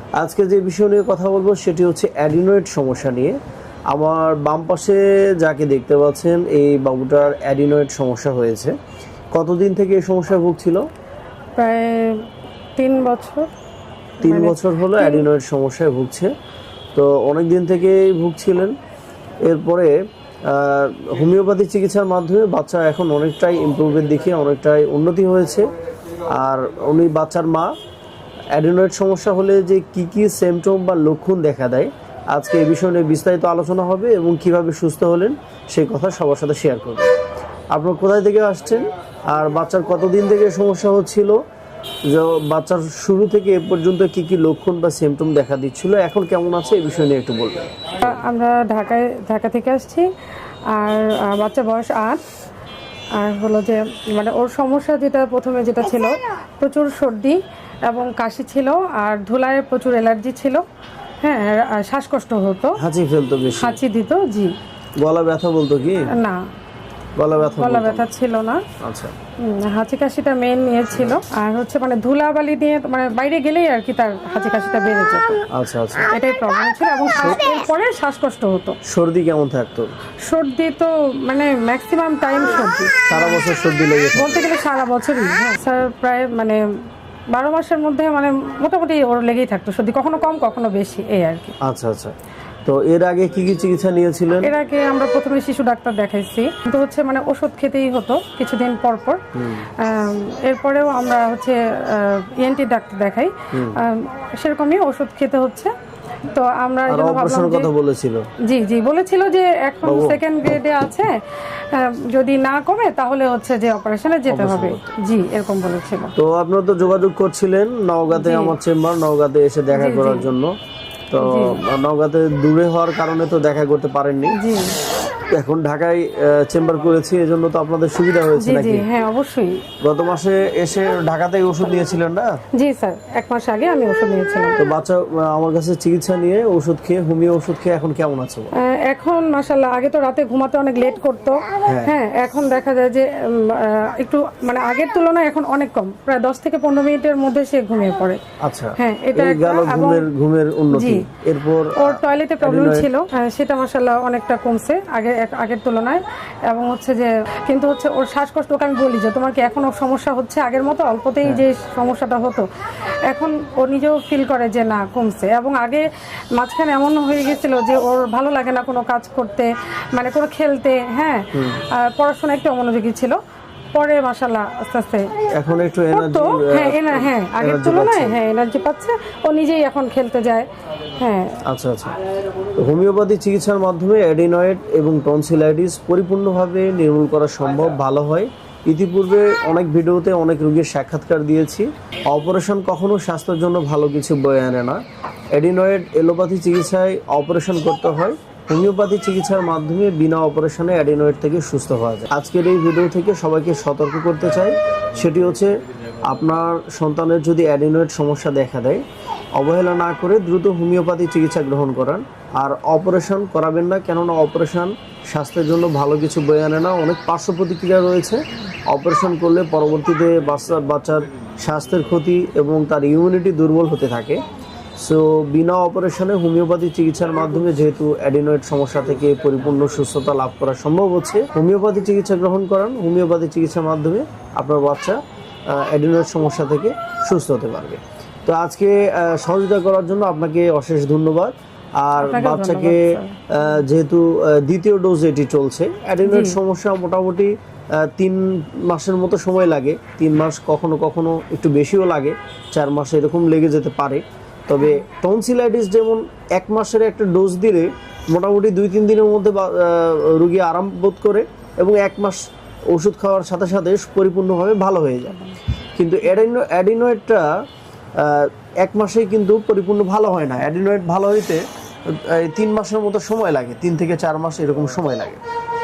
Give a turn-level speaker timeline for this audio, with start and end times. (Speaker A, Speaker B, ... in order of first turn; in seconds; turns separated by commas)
Speaker A: 0.2-3.4, Speaker A: 3.9-8.8, Speaker A: 9.3-10.8, Speaker B: 11.6-13.5, Speaker B: 14.2-15.2, Speaker A: 14.2-16.3, Speaker A: 16.9-18.7, Speaker A: 19.4-19.9, Speaker A: 20.5-27.7, Speaker A: 28.5-37.1, Speaker A: 37.7-41.4, Speaker A: 42.1-48.1, Speaker B: 48.0-50.1, Speaker B: 50.7-52.2, Speaker B: 53.1-60.6, Speaker B: 61.2-62.8, Speaker A: 62.8-63.8, Speaker B: 63.6-64.5, Speaker A: 65.0-66.1, Speaker B: 66.1-66.5, Speaker A: 67.2-68.1, Speaker B: 67.4-68.6, Speaker A: 68.8-69.1, Speaker B: 69.4-75.4, Speaker A: 75.5-76.1, Speaker B: 76.1-78.8, Speaker A: 78.8-79.9, Speaker B: 80.2-83.4, Speaker A: 83.1-84.4, Speaker B: 84.1-86.6, Speaker B: 87.3-91.5, Speaker A: 91.6-92.1, Speaker A: 92.7-94.5, Speaker B: 94.4-99.2, Speaker A: 99.3-99.7, Speaker B: 99.8-105.7, Speaker A: 103.5-103.8, Speaker B: 106.3-107.7, Speaker A: 106.9-108.3, Speaker B: 108.4-116.1, Speaker A: 109.8-110.2, Speaker A: 114.3-114.9, Speaker A: 116.2-120.5, Speaker B: 118.1-118.5, Speaker B: 119.7-120.3, Speaker A: 121.1-124.4, Speaker B: 121.2-121.6, Speaker B: 124.3-124.8, Speaker A: 125.3-128.8, Speaker B: 128.3-129.6, Speaker A: 129.8-132.4, Speaker B: 132.5-134.6, Speaker A: 134.6-138.5, Speaker B: 138.6-148.2, Speaker A: 141.6-141.9, Speaker A: 148.4-152.9, Speaker B: 148.8-150.1, Speaker B: 150.7-151.0, Speaker B: 151.8-162.4, Speaker B: 163.1-173.2, Speaker A: 171.3-171.6, Speaker B: 173.7-175.2, Speaker A: 175.3-178.2, Speaker B: 175.9-181.4, Speaker A: 181.4-182.0, Speaker A: 182.5-194.8, Speaker A: 195.3-205.5, Speaker A: 206.1-208.8, Speaker A: 209.4-224.2, Speaker A: 224.8-267.4, Speaker B: 242.0-243.4, Speaker B: 246.0-246.4, Speaker A: 267.9-275.2